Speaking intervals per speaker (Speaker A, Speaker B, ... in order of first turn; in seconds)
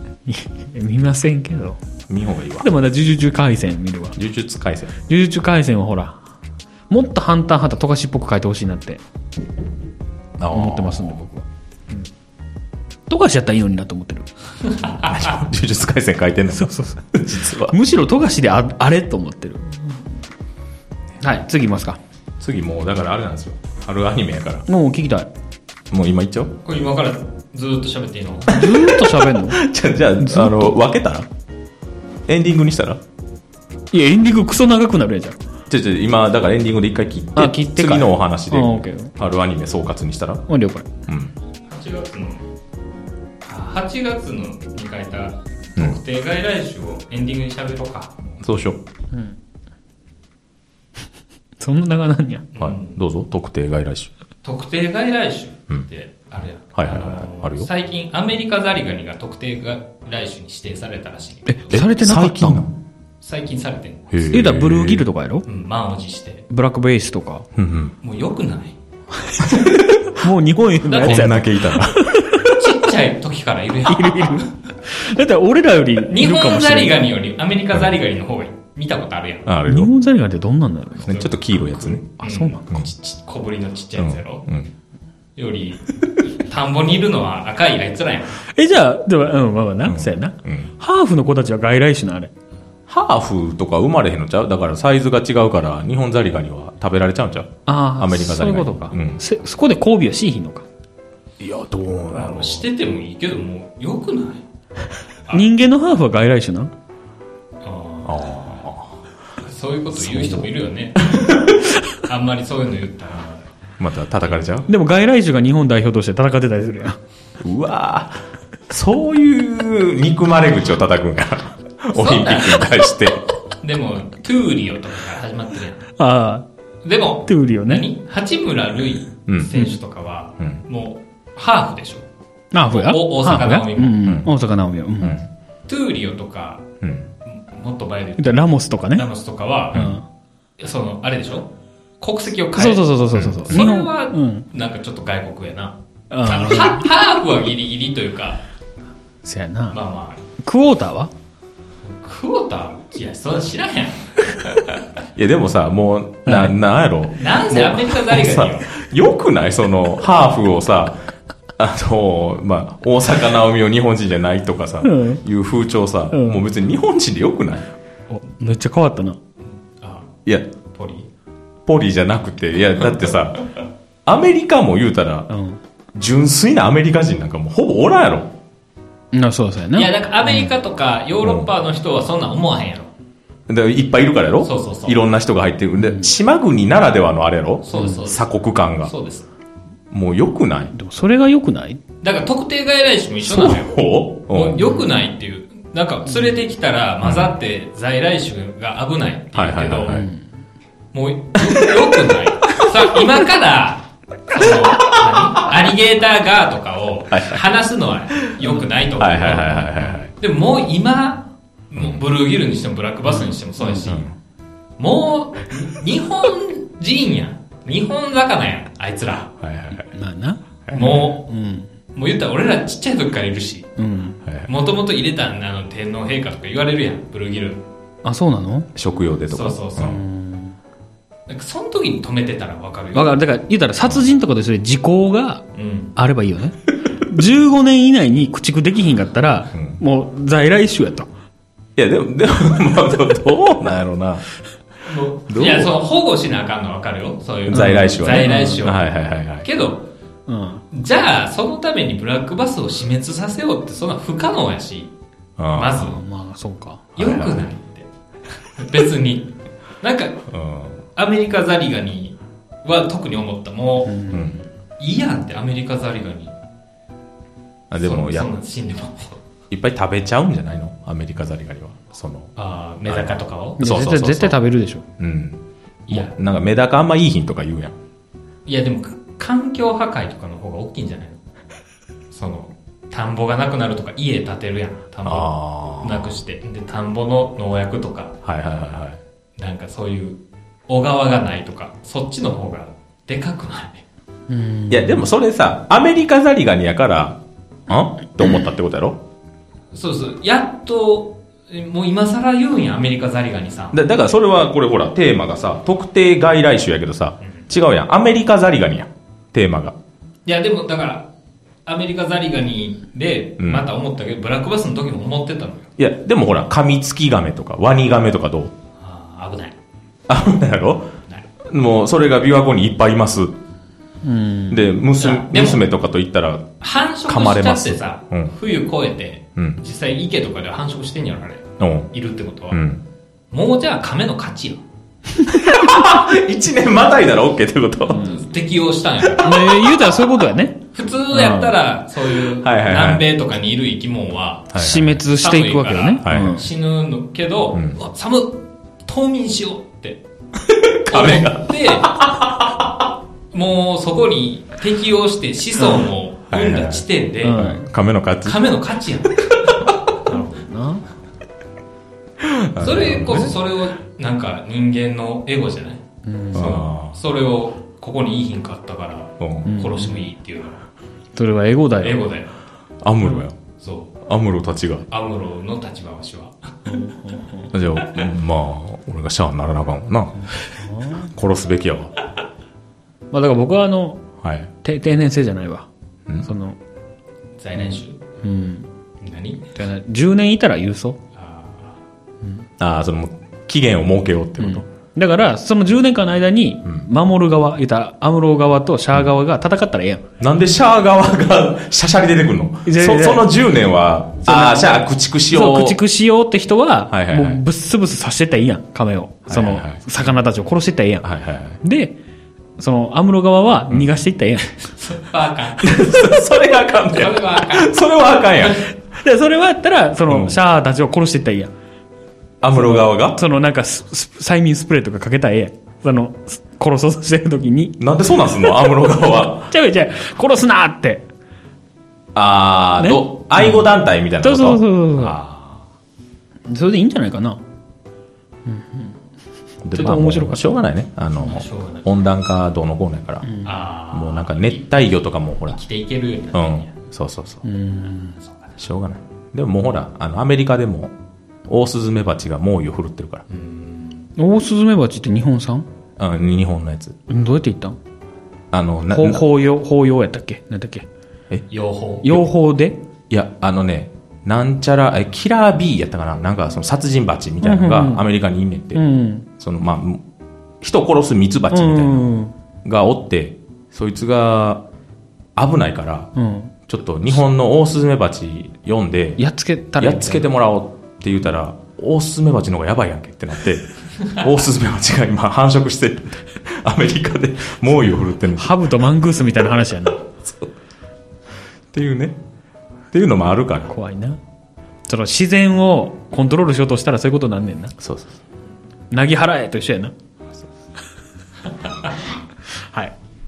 Speaker A: 0.3-1.8, 2.6-4.2, 5.1-6.2, 6.9-9.0, 10.5-11.4, 13.1-14.3, 16.5-17.1, 17.6-20.0, 21.2-22.0, 24.7-25.3, 28.5-29.6, 30.2-30.8, 33.9-35.4, 37.4-39.1, 40.5-40.9, 49.1-49.4, 51.6-52.5, 61.5-62.6, 64.3-65.5, 66.5-67.5, 69.2-72.6, 73.9-77.0, 79.7-81.1, 82.2-82.8, 88.5-92.3, 97.7-100.7, 105.3-106.7, 114.7-117.0, 126.0-126.5, 127.3-127.8, 132.5-135.2, 138.2-139.1, 139.7-140.0, 142.6-144.5, 146.1-146.9, 149.2-149.8, 150.4-151.1, 156.3-156.6, 164.8-165.2, 166.1-166.4, 168.1-169.2, 175.3-175.6, 179.1-180.0, 185.8-186.1, 187.7-188.0, 190.7-191.8, 199.9-200.2, 213.1-214.0, 219.9-221.7, 223.8-224.2, 228.0-228.7, 229.8-230.6, 232.9-235.4, 236.0-241.1, 247.5-248.7, 250.3-250.6, 255.8-256.9, 263.9-264.3, 273.6-274.9, 294.3-295.1, 324.0-324.8, 335.2-335.7, 337.9-338.2, 339.2-341.6, 344.5-346.5, 355.6-355.9, 357.2-357.7, 360.1-360.8, 366.1-366.5, 369.5-370.1, 371.2-372.0, 376.7-377.5, 380.3-381.1, 383.1-384.0, 384.6-385.7, 386.2-386.6, 387.6-388.7, 389.6-391.0, 394.4-400.0, 402.7-403.3, 404.2-411.1, 411.6-412.0, 412.6-414.6, 418.9-421.5, 422.5-427.8, 429.5-431.1, 432.8-433.7, 434.2-435.2, 436.5-437.4, 438.5-438.9, 439.7-440.4, 443.2-443.5, 447.4-448.2, 454.2-455.7, 457.1-457.8, 458.9-460.9, 462.0-462.8, 467.4-468.0, 468.7-469.3, 471.5-472.3, 476.2-476.5, 479.2-480.3, 488.4-490.0, 493.7-494.2, 494.9-497.8, 498.9-499.9, 502.6-502.9
Speaker B: 2.1-2.7, 4.2-4.9, 10.4-11.2, 14.9-17.8, 22.4-24.7, 25.9-26.6, 28.5-31.3, 32.3-33.0, 35.7-40.4, 41.1-41.3, 48.4-48.8, 52.6-54.1, 56.8-57.7, 61.7-62.8, 64.1-65.1, 67.6-68.0, 69.4-70.2, 71.0-72.3, 79.5-79.9, 81.0-82.0, 84.0-84.7, 89.8-90.7, 92.9-99.2, 101.4-102.7, 108.0-109.0, 109.9-111.7, 113.8-114.7, 117.4-123.2, 129.3-129.5, 134.1-134.3, 143.1-143.6, 155.2-161.0, 161.6-167.7, 171.7-173.5, 174.1-175.3, 175.9-178.3, 181.2-181.5, 183.5-188.9, 189.9-190.7, 193.2-194.6, 197.0-197.3, 199.3-200.1, 201.4-201.9, 204.5-204.9, 207.1-207.4, 209.0-210.1, 211.8-212.0, 213.9-214.1, 219.4-219.9, 228.8-230.0, 239.6-239.8, 241.8-244.2, 245.3-245.7, 247.5-249.5, 255.4-255.8, 257.0-257.5, 260.3-260.8, 264.1-264.4, 267.7-268.3, 269.5-272.3, 272.9-274.4, 275.0-277.8, 285.1-286.2, 288.2-289.0, 294.7-299.0, 303.7-309.8, 313.4-313.7, 315.8-318.5, 320.1-320.9, 321.5-323.4, 324.5-326.5, 327.1-328.3, 331.6-331.9, 332.5-332.8, 335.3-338.1, 342.3-343.1, 344.5-344.9, 346.0-346.5, 347.5-347.8, 350.4-352.8, 356.3-358.4, 362.2-363.4, 366.3-367.0, 369.2-369.5, 372.8-373.4, 374.1-374.9, 377.5-380.2, 381.1-381.9, 384.2-384.5, 392.6-394.6, 400.2-405.8, 406.9-407.4, 409.3-409.8, 411.0-411.6, 415.6-418.7, 420.1-420.4, 422.4-423.2, 427.8-429.5, 432.1-435.6, 439.6-443.3, 443.9-445.6, 446.3-447.4, 448.6-450.9, 451.5-453.2, 456.0-457.0, 458.5-459.2, 463.1-468.8, 469.4-470.0, 470.6-472.1, 472.6-474.6, 475.4-476.1, 476.7-479.2, 479.8-488.6, 490.2-490.5, 491.7-492.2, 492.9-493.7, 497.8-498.1
Speaker C: 26.6-28.5, 41.7-42.4, 43.5-48.4, 52.5-53.0, 54.4-61.8, 63.2-64.2, 65.5-66.5, 68.0-68.8, 70.8-71.3, 72.5-74.5, 76.1-79.5, 81.1-84.5, 85.4-88.4, 102.1-104.4, 107.6-108.5, 109.4-111.4, 112.0-113.5, 121.9-122.9, 123.6-125.9, 126.8-132.1, 132.7-134.1, 135.7-136.7, 137.2-140.0, 140.6-148.4, 149.7-150.2, 151.8-154.8, 157.1-158.7, 169.8-170.1, 170.7-171.1, 179.8-182.9, 184.4-185.0, 187.7-188.3, 188.8-189.3, 192.0-200.0, 200.9-214.1, 214.8-219.3, 220.7-221.2, 221.9-223.7, 224.5-227.7, 229.3-230.0, 231.3-233.2, 235.6-236.0, 244.8-249.8, 250.7-254.9, 255.6-256.0, 257.0-257.9, 258.6-260.2, 261.0-264.2, 264.8-266.3, 267.8-269.2, 272.4-273.6, 275.9-276.1, 278.5-281.2, 282.1-288.2, 289.4-293.8, 299.7-303.8, 310.2-311.1, 311.7-315.7, 318.8-319.6, 325.0-325.6, 326.6-332.6, 333.3-334.6, 337.9-339.6, 340.7-350.0, 350.9-352.0, 353.3-357.5, 358.2-360.1, 362.6-370.6, 371.8-372.4, 373.6-373.9, 374.9-376.8, 387.4-388.0, 389.0-389.5, 391.2-391.8, 414.8-416.1, 416.8-417.8, 418.4-418.6, 441.2-441.9, 443.4-444.8, 445.5-446.7, 448.2-448.5, 453.3-454.1, 461.5-462.2